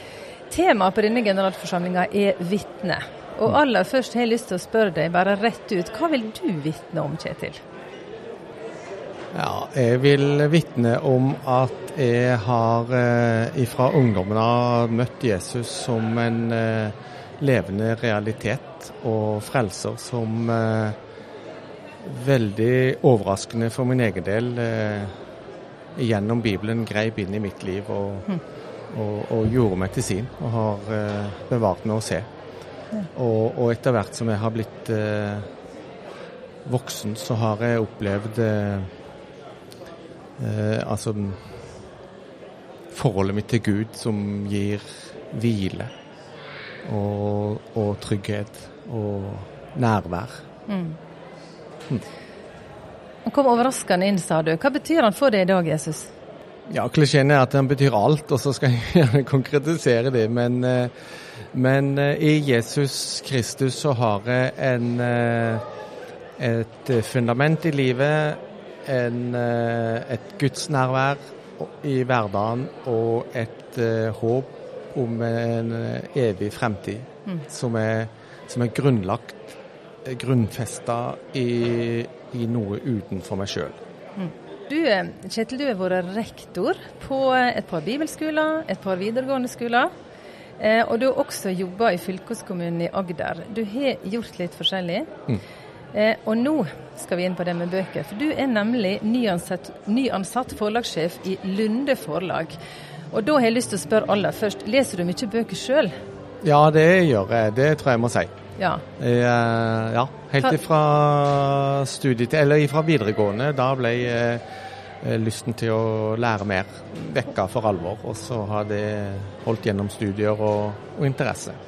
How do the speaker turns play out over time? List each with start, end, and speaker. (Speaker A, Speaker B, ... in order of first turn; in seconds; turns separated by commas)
Speaker A: 0.5-7.6, Speaker B: 9.3-20.9, Speaker B: 22.0-25.1, Speaker B: 26.0-28.3, Speaker B: 28.9-32.3, Speaker B: 33.1-35.5, Speaker B: 36.6-38.9, Speaker B: 40.4-41.5, Speaker B: 42.9-45.9, Speaker B: 46.8-50.4, Speaker A: 50.7-51.0, Speaker A: 53.2-56.1, Speaker B: 56.7-60.9, Speaker B: 61.5-65.6, Speaker B: 66.4-83.8, Speaker A: 84.2-89.9, Speaker A: 90.6-95.1, Speaker A: 95.9-102.5, Speaker A: 103.1-105.9, Speaker B: 106.4-108.3, Speaker A: 108.6-108.8, Speaker B: 109.0-114.4, Speaker B: 115.0-121.6